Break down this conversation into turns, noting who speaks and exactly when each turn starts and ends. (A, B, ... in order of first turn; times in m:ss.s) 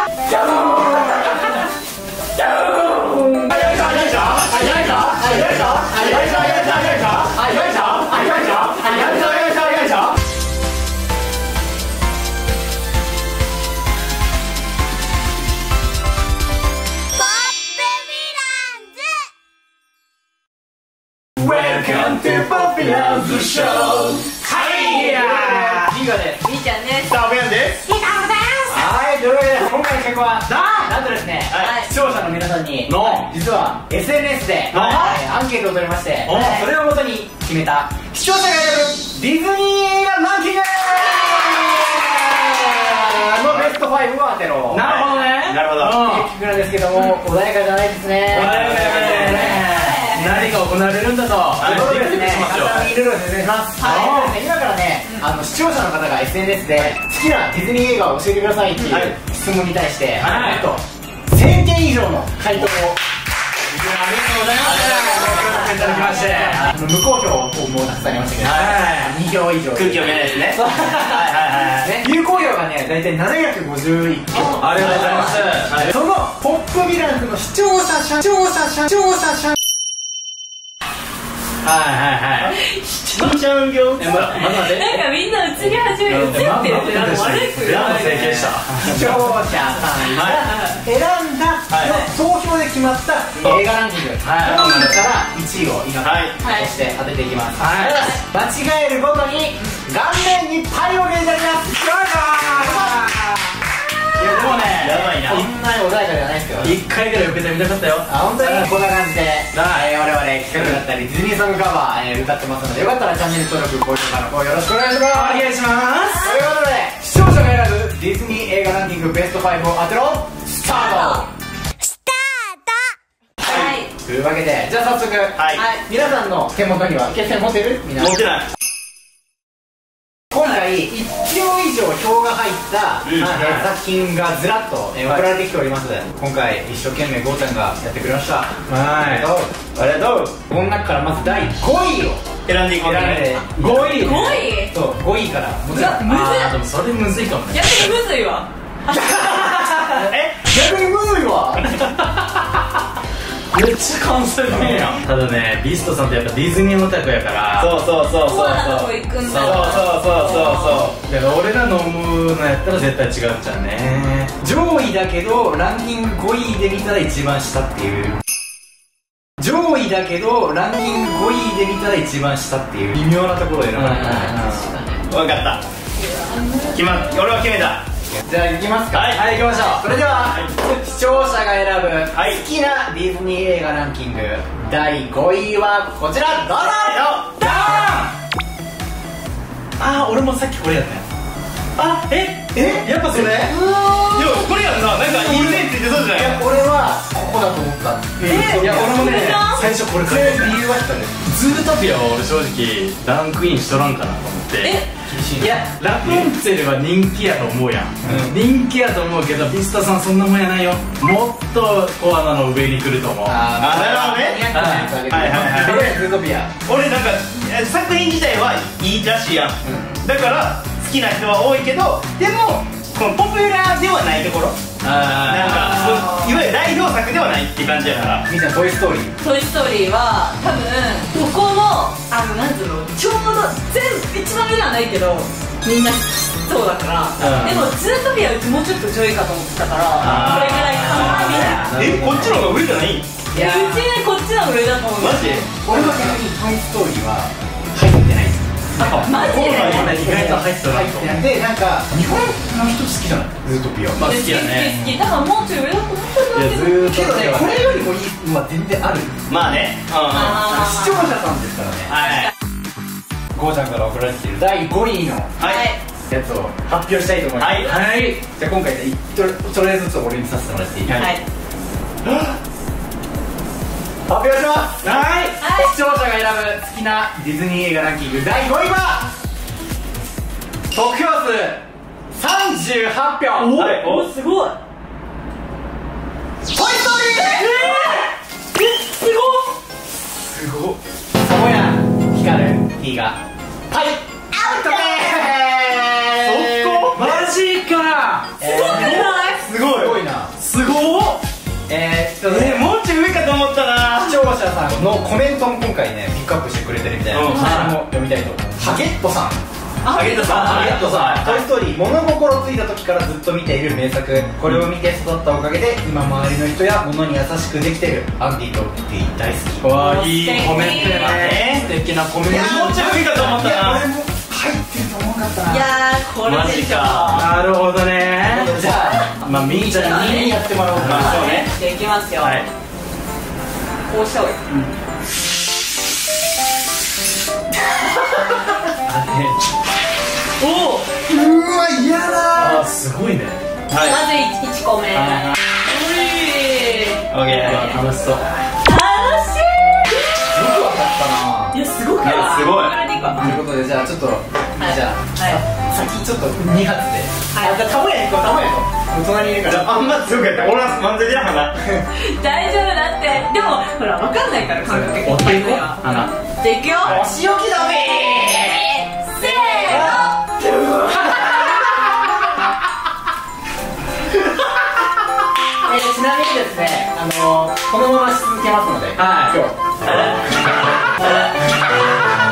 0:00.5-0:01.4 A
0:02.8-0:10.1 A
0:03.5-0:05.8 B
0:05.3-0:07.3 C
0:06.5-0:07.2 B
0:17.4-0:18.9 D
0:21.4-0:26.4 A
0:21.4-0:26.0 B
0:23.0-0:23.9 C
0:26.4-0:27.2 D
0:27.1-0:27.9 C
0:27.8-0:28.8 D
0:28.7-0:44.9 A
0:30.5-0:30.9 B
0:31.5-0:31.9 D
0:32.9-0:33.3 B
0:34.7-0:35.2 B
0:34.7-0:35.0 C
0:36.3-0:36.7 B
0:36.3-0:36.7 D
0:43.5-0:43.7 C
0:44.7-0:46.3 B
0:44.8-0:46.0 C
0:45.9-0:49.8 A
0:48.3-0:52.9 B
0:48.5-0:49.0 C
0:48.7-0:50.4 D
0:51.6-0:51.9 C
0:51.6-1:03.0 A
0:53.8-0:54.2 D
0:53.8-0:54.4 B
0:58.9-0:59.1 C
1:00.2-1:00.7 B
1:03.7-1:06.7 B
1:04.3-1:19.6 A
1:04.7-1:05.3 C
1:05.0-1:06.2 D
1:08.4-1:08.8 C
1:08.5-1:09.2 B
1:09.7-1:11.9 C
1:14.6-1:15.9 B
1:14.8-1:15.9 C
1:21.6-1:22.6 B
1:22.4-1:24.5 C
1:22.6-1:23.4 D
1:24.0-1:25.0 B
1:24.4-1:28.1 D
1:25.8-1:29.2 B
1:27.6-1:29.1 C
1:28.8-1:41.9 A
1:30.1-1:30.5 C
1:30.2-1:30.8 D
1:31.7-1:32.0 C
1:34.2-1:35.0 B
1:36.0-1:36.4 C
1:36.4-1:36.7 D
1:37.6-1:38.1 B
1:41.8-1:43.4 B
1:42.5-1:43.2 A
1:44.2-1:45.4 B
1:44.2-1:44.5 A
1:44.6-1:45.4 C
1:45.1-1:46.8 A
1:46.6-1:48.7 B
1:48.1-1:55.5 A
1:49.5-1:49.9 B
1:50.5-1:50.8 B
1:55.1-1:56.3 B
1:56.1-1:56.5 D
1:56.2-2:01.3 A
2:00.7-2:01.3 D
2:03.4-2:08.2 A
2:03.4-2:03.9 D
2:05.4-2:05.6 C
2:05.6-2:05.8 D
2:08.0-2:08.5 C
2:10.3-2:19.6 A
2:13.0-2:13.4 C
2:13.3-2:13.7 B
2:18.7-2:19.3 B
2:19.8-2:20.4 C
2:20.5-2:26.0 A
2:22.5-2:23.3 C
2:23.5-2:24.4 B
2:24.0-2:24.7 D
2:25.7-2:26.6 D
2:25.8-2:28.0 B
2:27.5-2:29.8 D
2:28.9-2:31.9 A
2:30.0-2:30.4 C
2:33.5-2:37.8 B
2:34.6-2:35.0 A
2:37.6-2:41.0 C
2:38.2-2:40.9 D
2:39.2-2:40.0 B
2:41.0-2:44.3 B
2:44.4-2:48.2 A
2:49.4-2:54.4 A
2:53.7-2:54.7 B
2:54.0-2:55.0 D
2:55.1-2:55.6 C
2:56.0-2:57.0 D
2:56.7-2:57.9 C
2:58.2-3:07.9 A
2:58.9-2:59.3 C
2:59.1-2:59.9 B
3:00.2-3:00.5 C
3:02.2-3:02.4 C
3:06.6-3:07.3 C
3:07.4-3:08.1 B
3:09.8-3:11.0 B
3:11.8-3:12.1 C
3:12.1-3:13.6 B
3:12.6-3:21.3 A
3:14.1-3:16.4 C
3:18.2-3:18.6 C
3:18.2-3:19.7 D
3:18.6-3:20.6 B
3:21.2-3:24.8 B
3:24.6-3:24.9 D
3:25.1-3:26.2 A
3:25.4-3:33.4 B
3:28.1-3:28.3 C
3:33.2-3:36.5 A
3:33.6-3:34.5 C
3:34.5-3:35.0 B
3:35.1-3:35.8 C
3:36.6-3:44.6 C
3:39.6-3:40.0 A
3:44.8-3:46.1 B
3:45.1-3:48.3 C
3:48.3-3:49.1 A
3:49.2-4:01.7 D
3:57.2-3:57.7 B
4:00.0-4:02.6 B
4:00.0-4:01.7 A
4:01.7-4:03.1 C
4:03.3-4:03.8 A
4:03.3-4:05.5 D
4:05.0-4:06.1 C
4:05.6-4:14.0 A
4:08.8-4:10.0 D
4:08.8-4:11.2 B
4:09.0-4:10.2 C
4:14.0-4:15.0 B
4:14.0-4:17.4 D
4:16.3-4:17.7 B
4:16.9-4:19.2 A
4:19.3-4:20.6 C
4:20.1-4:21.0 D
4:20.2-4:22.0 A
4:21.9-4:22.3 C
4:23.4-4:25.3 A
4:25.4-4:25.7 C
4:25.4-4:25.8 D
4:26.1-4:31.0 A
4:27.4-4:27.7 C
4:27.6-4:28.2 B
4:30.9-4:31.1 C
4:31.0-4:31.2 D
4:32.0-4:32.4 C
4:34.1-4:39.1 A
4:34.8-4:35.2 C
4:35.4-4:35.7 D
4:40.7-4:41.6 A
4:42.1-4:43.6 A
4:43.4-4:44.6 D
4:43.5-4:44.1 C
4:46.5-4:48.0 A
4:47.1-4:48.0 D
4:48.6-4:49.5 D
4:50.3-4:50.8 B
4:51.2-4:53.2 A
4:53.7-4:57.0 A
4:54.4-4:54.8 D
4:56.2-4:57.2 C
4:56.9-4:58.4 B
4:58.4-5:00.3 A
4:58.4-4:59.4 D
4:58.6-5:00.0 C
5:00.4-5:01.2 B
5:01.7-5:02.6 A
5:02.3-5:04.2 C
5:04.0-5:09.5 A
5:07.1-5:07.6 C
5:07.3-5:07.7 D
5:07.3-5:07.8 B
5:09.8-5:10.8 D
5:09.9-5:11.4 C
5:10.2-5:11.3 B
5:10.4-5:19.7 A
5:19.6-5:23.0 B
5:19.7-5:21.3 D
5:20.7-5:21.7 C
5:22.2-5:25.7 A
5:22.3-5:23.9 C
5:25.5-5:27.3 D
5:26.3-5:27.3 C
5:27.1-5:28.6 B
5:28.3-5:31.3 A
5:28.9-5:32.5 D
5:29.2-5:31.2 B
5:30.8-5:31.5 C
5:32.2-5:32.5 C
5:33.9-5:34.4 D
5:38.9-5:39.4 B
5:40.4-5:40.9 D
5:41.1-5:42.7 A
5:42.4-5:43.4 B
5:43.7-5:44.0 C
5:43.8-5:47.8 D
5:45.0-5:45.4 B
5:47.1-5:47.7 C
5:47.3-5:48.2 B
5:48.6-5:50.2 D
5:50.3-5:51.6 A
5:51.5-5:53.4 D
5:52.0-5:52.8 C
5:53.2-6:00.5 A
5:54.6-5:55.4 D
5:57.3-5:57.6 D
5:59.4-6:01.6 C
6:01.9-6:07.0 D
6:04.7-6:06.1 B
6:06.8-6:12.1 A
6:09.0-6:10.2 D
6:15.6-6:19.6 A
6:19.0-6:19.4 B